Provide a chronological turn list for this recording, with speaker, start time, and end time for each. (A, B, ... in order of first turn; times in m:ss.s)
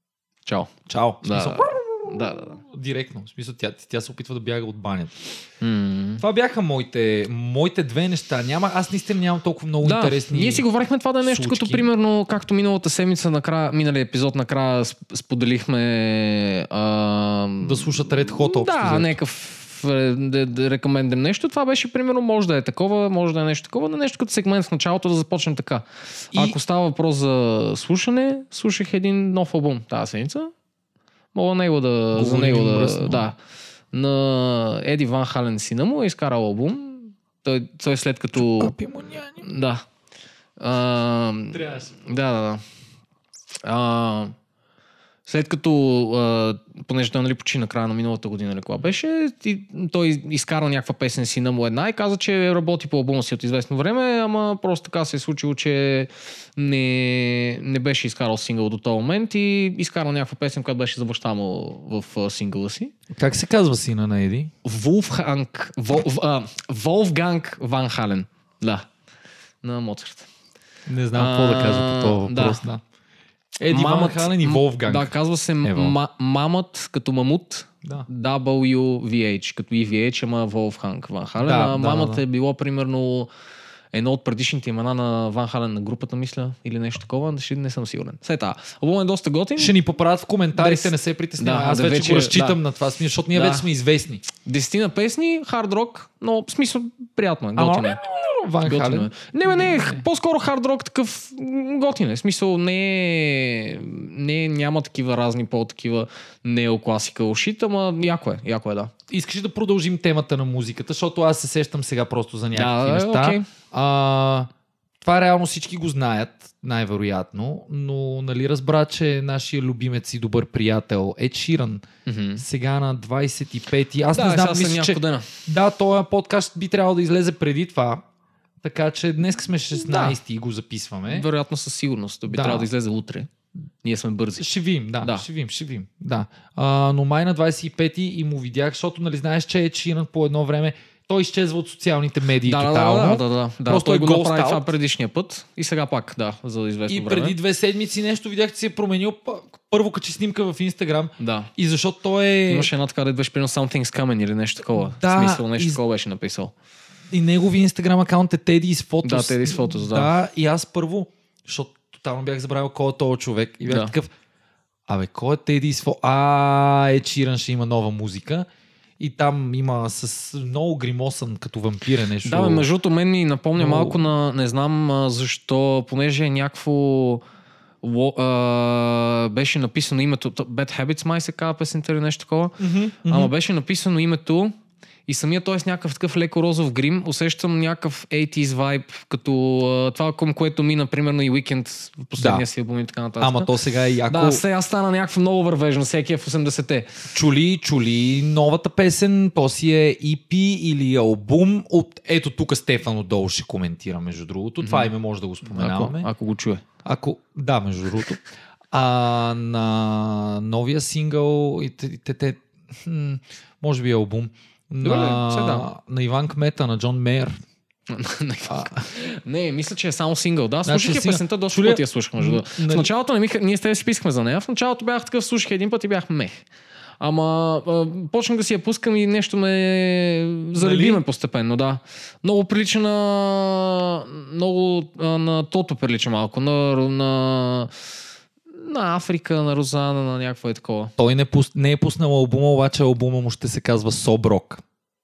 0:00.4-0:02.6 A
0:00.9-0:05.2 B
0:05.6-0:06.2 A
0:06.2-0:10.6 B
0:09.8-0:30.5 A
0:11.2-0:11.9 B
0:17.6-0:19.2 B
0:31.3-0:33.4 A
0:32.1-0:33.3 B
0:33.9-0:38.7 A
0:38.3-0:39.4 B
0:39.4-0:39.9 A
0:40.6-0:42.6 A
0:41.5-0:42.0 B
0:43.6-0:44.3 A
0:45.2-1:02.9 A
1:03.1-1:04.5 B
1:04.6-1:08.9 A
1:09.6-1:10.3 A
1:10.9-1:12.8 B
1:11.1-1:12.6 A
1:13.6-1:15.9 B
1:13.7-1:23.3 A
1:21.4-1:22.2 B
1:23.9-1:29.7 A
1:29.6-1:34.2 B
1:30.6-1:32.6 A
1:33.3-1:33.6 A
1:34.4-1:38.0 A
1:37.6-1:40.0 B
1:38.6-1:48.9 A
1:49.1-1:54.5 B
1:52.5-1:53.5 A
1:55.0-2:01.8 B
2:02.0-2:02.4 A
2:02.4-2:08.0 B
2:04.1-2:05.3 A
2:08.6-2:11.3 B
2:09.8-2:10.2 A
2:11.1-2:13.3 A
2:12.3-2:12.7 B
2:13.8-2:14.5 A
2:14.4-2:24.7 B
2:22.4-2:27.4 A
2:26.9-2:32.7 B
2:31.2-2:31.5 A
2:32.5-2:36.5 A
2:34.7-2:35.8 B
2:37.1-2:44.1 B
2:39.0-2:40.1 A
2:43.7-2:43.9 A
2:44.9-2:48.5 B
2:49.0-2:52.7 B
2:52.2-2:57.2 A
2:53.6-2:54.0 B
2:57.8-3:04.5 A
3:02.6-3:03.3 B
3:05.1-3:13.5 A
3:12.2-3:12.4 B
3:13.2-3:14.4 B
3:14.1-3:17.0 A
3:17.1-3:26.1 B
3:24.6-3:24.9 A
3:25.4-3:26.6 A
3:26.8-3:37.3 B
3:34.8-3:35.7 A
3:37.9-3:46.4 A
3:38.5-3:38.9 B
3:40.6-3:42.9 B
3:47.0-3:57.7 A
3:50.6-3:51.0 B
3:58.5-4:00.9 A
4:01.0-4:04.6 B